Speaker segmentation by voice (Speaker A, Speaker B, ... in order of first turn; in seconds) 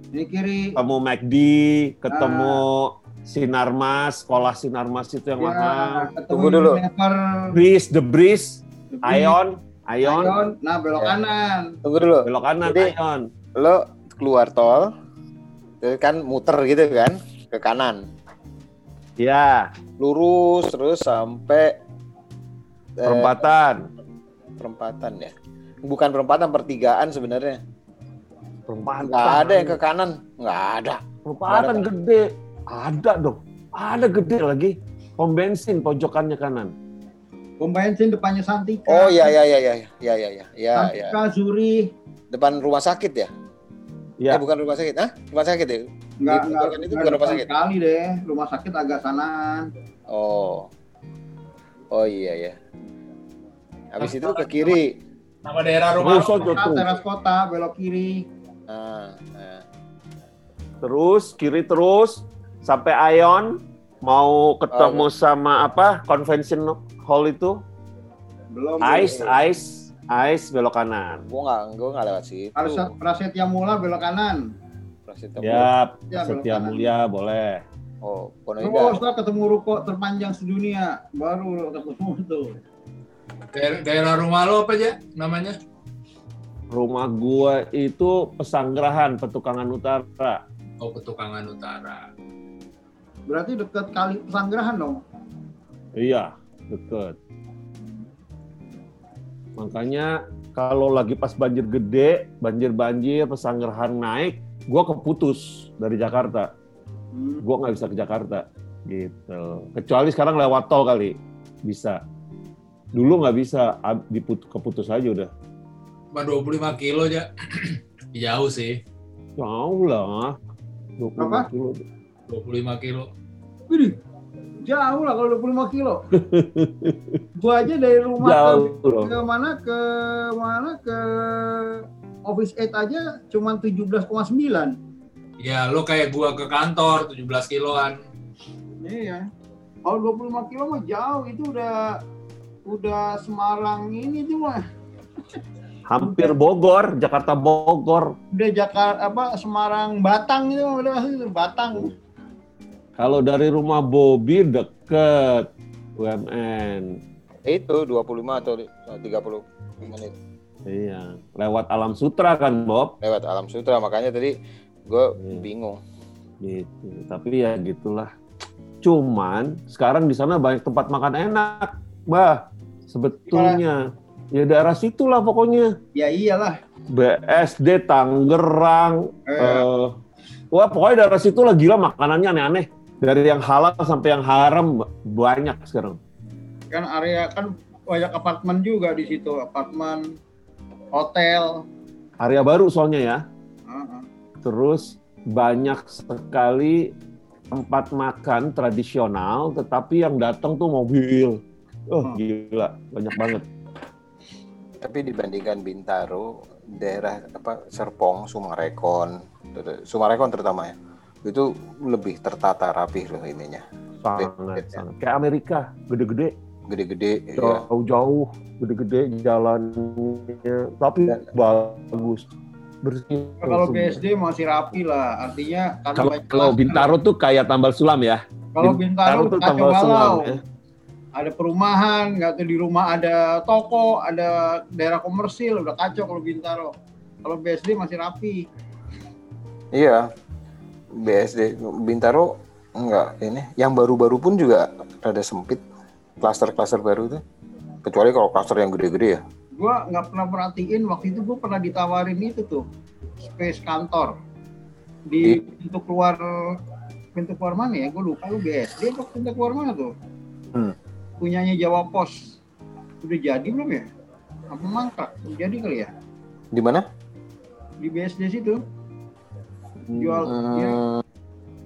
Speaker A: 0.1-0.8, 2.1-2.6, 5.4-7.5, 8.9-9.4, 10.0-11.8, 37.6-39.3, 40.8-41.9, 46.2-49.7, 56.1-58.2, 68.5-69.3, 72.6-74.4, 76.1-76.9, 78.6-82.6, 93.3-95.0, 107.1-107.4, 121.2-121.5, 123.7-124.0, 124.7-126.0, 127.4-134.8, 138.8-139.2, 139.9-142.0, 142.7-144.6, 146.0-146.3, 148.3-151.9, 173.3-173.6, 175.9-176.6, 179.3-179.7, 186.7-190.0, 190.9-191.6, 193.7-194.1, 223.4-226.9, 228.6-230.3, 231.2-236.7, 237.2-238.4, 249.6-252.6, 253.2-254.1, 255.1-256.2, 257.1-259.9, 261.2-262.2, 263.0-263.9, 264.5-265.9, 267.8-268.6, 269.9-270.8
Speaker B: 0.8-6.1, 7.5-10.4, 12.2-13.2, 19.2-19.7, 23.0-23.9, 28.7-29.8, 31.2-36.7, 56.0-57.0, 60.8-67.6, 68.8-71.2, 75.4-77.6, 86.7-90.4, 96.0-97.2, 99.6-106.5, 107.4-112.0, 113.0-115.3, 119.4-120.4, 121.0-121.8, 126.1-127.2, 128.2-129.2, 145.9-148.1, 153.0-157.0, 160.7-162.9, 165.2-165.4, 166.4-168.1, 168.8-173.8, 174.3-175.7, 176.9-179.9, 180.5-186.0, 192.2-193.2, 194.4-196.9, 197.5-203.5, 214.0-216.3, 217.4-222.2, 222.8-224.0, 226.0-230.4, 269.9-270.3
Speaker C: 6.3-6.8, 11.8-12.9, 13.6-14.9, 15.8-18.0, 20.0-21.8, 23.0-23.4, 24.6-25.3, 25.9-27.6, 29.0-31.9, 38.9-41.2, 42.3-43.3, 44.3-47.5, 50.1-50.7, 51.9-52.6, 53.9-55.0, 58.7-59.6, 64.7-65.1, 71.3-72.9, 75.1-75.7, 78.0-79.0, 157.5-160.1, 163.0-165.8, 204.8-213.6, 214.1-214.8, 216.7-217.6, 239.7-240.0, 240.9-245.6, 246.2-247.2, 247.8-249.2, 266.5-266.9, 270.2-271.0
Speaker D: 54.0-54.5, 55.5-56.6, 83.5-85.6, 90.8-92.0, 116.1-118.8, 122.3-123.1, 135.4-138.0